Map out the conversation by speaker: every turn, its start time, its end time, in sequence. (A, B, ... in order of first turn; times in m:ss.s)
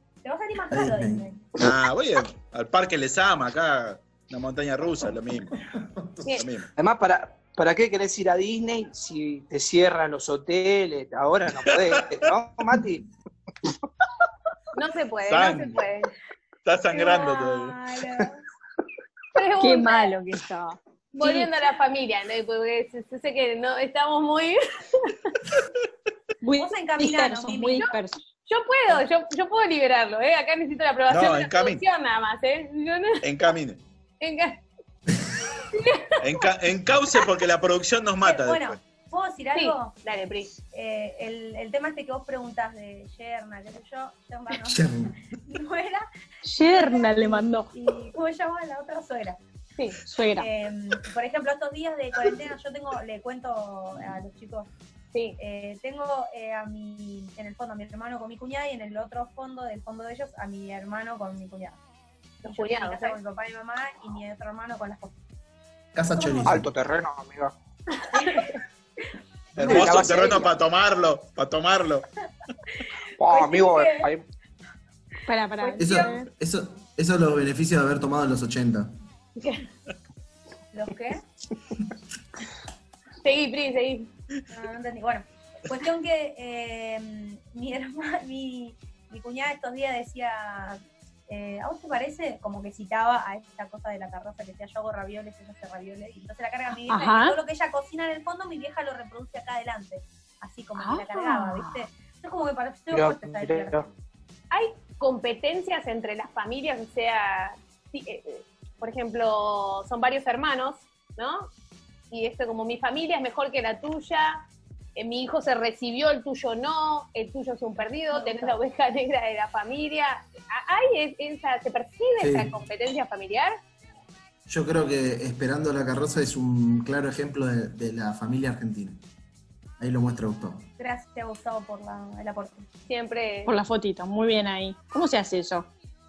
0:00.2-0:01.4 A
0:00.7-0:01.3 B
0:01.6-0:05.6 C
0:05.7-0:06.2 B
0:06.3-0:06.7 C
0:06.8-0:13.0 D
0:11.6-0:12.2 C
0:14.7-0:16.1 E
0:15.2-0:15.8 C
0:16.6-0:17.8 C
0:16.9-0:18.4 A
0:19.4-0:20.1 E
0:19.6-0:21.5 F
0:21.1-0:25.4 E
0:26.4-0:28.2 F
0:26.6-0:27.8 A
0:28.5-0:33.2 E
0:31.1-0:31.8 C
0:33.2-0:33.8 C
0:34.2-0:34.6 E
0:35.7-0:36.5 E
0:36.2-0:38.8 C
0:38.2-0:39.9 A
0:39.5-0:40.5 E
0:40.7-0:44.9 A
0:44.6-0:45.2 B
0:45.4-0:46.0 A
0:46.4-0:47.7 F
0:46.6-0:49.4 A
0:50.0-0:50.5 F
0:50.4-0:54.7 A
0:55.4-1:01.8 A
1:02.4-1:03.2 E
1:02.4-1:05.1 A
1:05.9-1:06.7 B
1:06.2-1:06.6 A
1:06.4-1:07.5 D
1:08.1-1:08.6 A
1:08.2-1:08.5 E
1:09.6-1:12.0 C
1:09.6-1:10.5 D
1:13.2-1:14.2 D
1:13.3-1:14.1 A
1:15.2-1:16.3 F
1:15.6-1:16.2 A
1:15.8-1:18.9 B
1:19.4-1:19.6 E
1:20.7-1:21.2 A
1:23.2-1:24.1 E
1:24.5-1:43.8 A
1:36.9-1:37.4 F
1:40.8-1:41.9 F
1:42.9-1:43.9 D
1:44.5-1:51.5 E
1:52.1-1:54.4 E
1:55.0-2:03.6 E
1:58.1-1:58.6 A
2:02.2-2:02.5 B
2:04.5-2:09.0 B
2:09.8-2:10.7 B
2:10.8-2:12.7 A
2:12.9-2:13.5 E
2:13.4-2:15.7 F